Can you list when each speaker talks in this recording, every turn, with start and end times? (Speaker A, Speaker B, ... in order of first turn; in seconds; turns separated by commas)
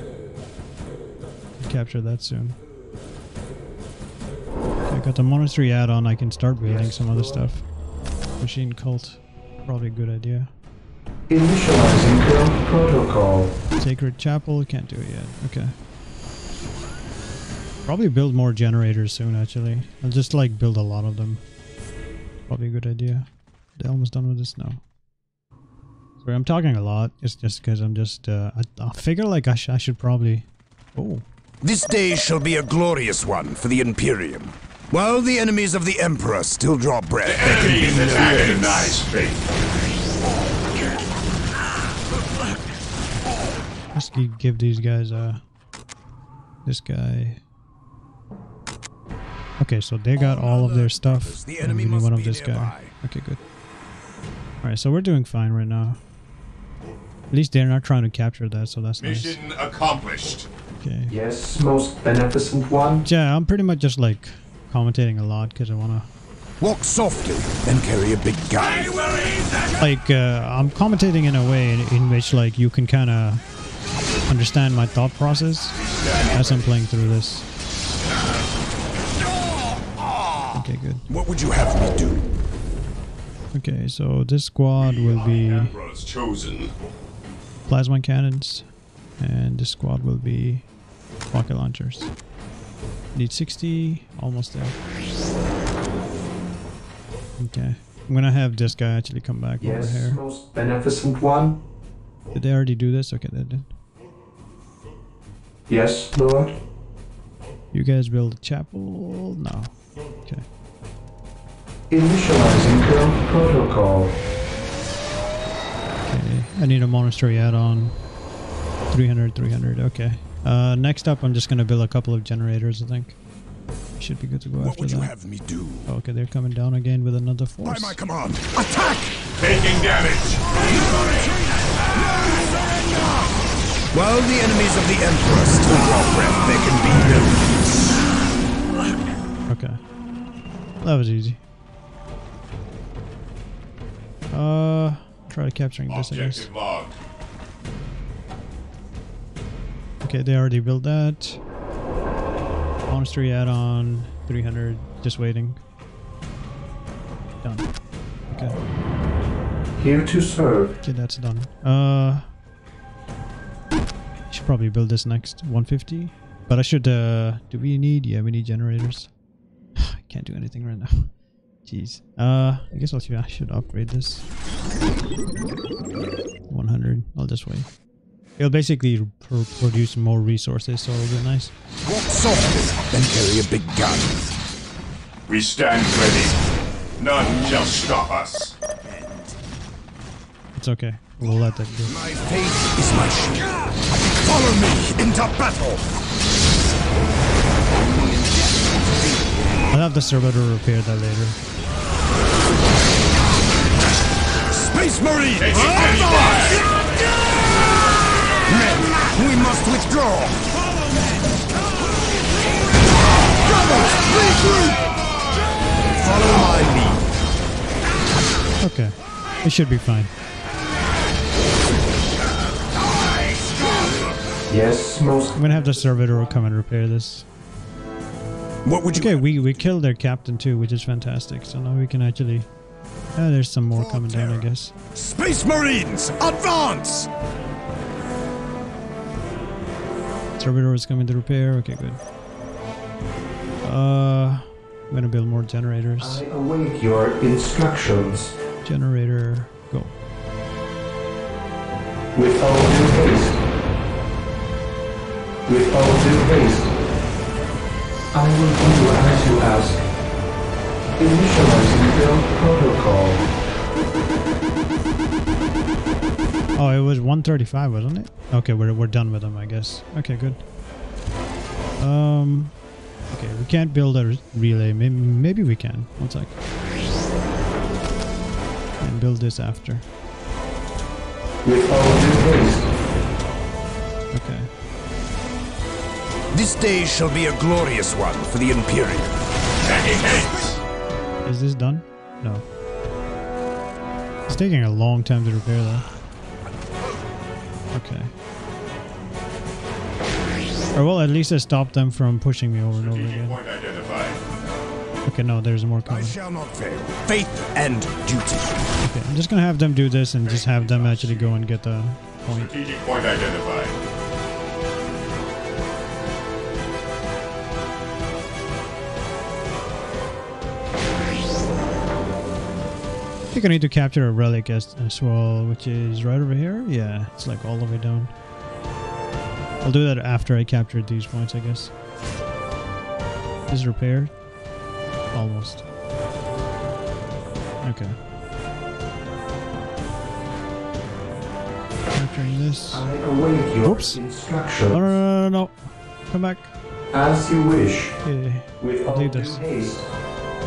Speaker A: 1.6-2.6, Speaker A: 4.9-7.6, Speaker B: 6.6-7.5, Speaker A: 8.4-10.5, Speaker B: 11.3-13.6, Speaker A: 13.8-15.7, Speaker A: 17.9-21.4, Speaker A: 22.5-24.8, Speaker A: 26.2-31.2, Speaker C: 31.6-39.0, Speaker D: 37.2-39.4, Speaker A: 43.9-45.4, Speaker A: 46.6-47.4, Speaker A: 49.6-53.4, Speaker C: 50.1-52.9, Speaker A: 54.6-56.0, Speaker A: 57.3-59.4, Speaker D: 59.0-60.5, Speaker A: 60.8-61.1, Speaker B: 61.1-63.0, Speaker A: 63.0-66.1, Speaker C: 66.6-69.0, Speaker D: 68.6-69.7, Speaker A: 69.8-73.4, Speaker A: 74.3-77.5, Speaker D: 75.7-77.1, Speaker A: 80.5-81.0, Speaker C: 81.1-82.3, Speaker A: 83.5-85.7, Speaker D: 84.8-86.7, Speaker A: 87.7-88.7, Speaker A: 89.2-90.6, Speaker A: 91.3-92.1, Speaker A: 93.1-94.8, Speaker A: 97.4-100.2, Speaker B: 99.6-101.6, Speaker A: 102.3-103.7, Speaker B: 105.7-106.6, Speaker A: 107.7-110.4, Speaker B: 111.9-114.2, Speaker A: 116.0-118.0, Speaker A: 118.9-123.2, Speaker A: 124.0-125.1, Speaker C: 124.6-125.9, Speaker A: 125.8-128.0, Speaker C: 127.6-129.1, Speaker D: 129.4-130.4, Speaker C: 130.6-137.4, Speaker A: 136.9-137.3, Speaker A: 139.5-139.8, Speaker A: 140.8-141.4, Speaker A: 144.3-146.5, Speaker D: 145.9-147.0, Speaker A: 150.0-151.4, Speaker A: 152.9-155.6, Speaker A: 158.3-158.6, Speaker B: 159.8-160.8, Speaker A: 160.8-162.3, Speaker A: 164.3-169.1, Speaker A: 169.8-171.1, Speaker A: 171.6-174.2, Speaker A: 176.5-177.7, Speaker A: 178.4-181.5, Speaker C: 181.8-184.2, Speaker D: 185.3-186.3, Speaker D: 187.0-188.6, Speaker C: 188.8-189.3, Speaker A: 190.6-192.0, Speaker C: 191.8-193.6, Speaker C: 194.2-195.9, Speaker A: 199.7-201.4, Speaker C: 204.5-206.7, Speaker D: 205.4-206.8, Speaker C: 208.4-210.5, Speaker C: 213.2-214.8, Speaker C: 216.0-217.0, Speaker A: 218.6-220.1, Speaker B: 224.5-225.5, Speaker A: 225.3-227.2, Speaker C: 228.6-229.4, Speaker A: 228.9-232.5, Speaker A: 233.1-234.7, Speaker C: 233.7-237.1, Speaker A: 240.4-242.0, Speaker A: 243.6-246.2, Speaker B: 246.0-248.3, Speaker A: 248.6-249.9, Speaker B: 252.1-253.4, Speaker B: 255.5-256.7, Speaker B: 258.1-259.8, Speaker B: 261.0-263.2, Speaker A: 266.6-270.4, Speaker A: 271.8-272.5, Speaker A: 273.1-276.3, Speaker A: 278.8-279.8, Speaker B: 281.4-282.7, Speaker A: 284.1-284.5, Speaker C: 286.3-289.2, Speaker D: 289.6-290.6, Speaker A: 291.2-292.4, Speaker A: 294.3-295.9, Speaker A: 297.7-298.1, Speaker A: 300.7-303.4, Speaker D: 302.8-304.2, Speaker A: 305.0-306.1, Speaker C: 305.9-308.6, Speaker A: 308.8-312.5, Speaker D: 310.2-311.4, Speaker D: 312.3-313.8, Speaker A: 323.3-328.1, Speaker A: 329.6-331.7, Speaker A: 333.5-334.1, Speaker A: 335.1-335.6, Speaker A: 337.6-338.0, Speaker A: 341.9-342.8, Speaker B: 342.7-344.9, Speaker A: 343.6-344.0, Speaker A: 344.7-346.5, Speaker B: 346.9-348.0, Speaker A: 348.0-349.8, Speaker B: 348.6-349.9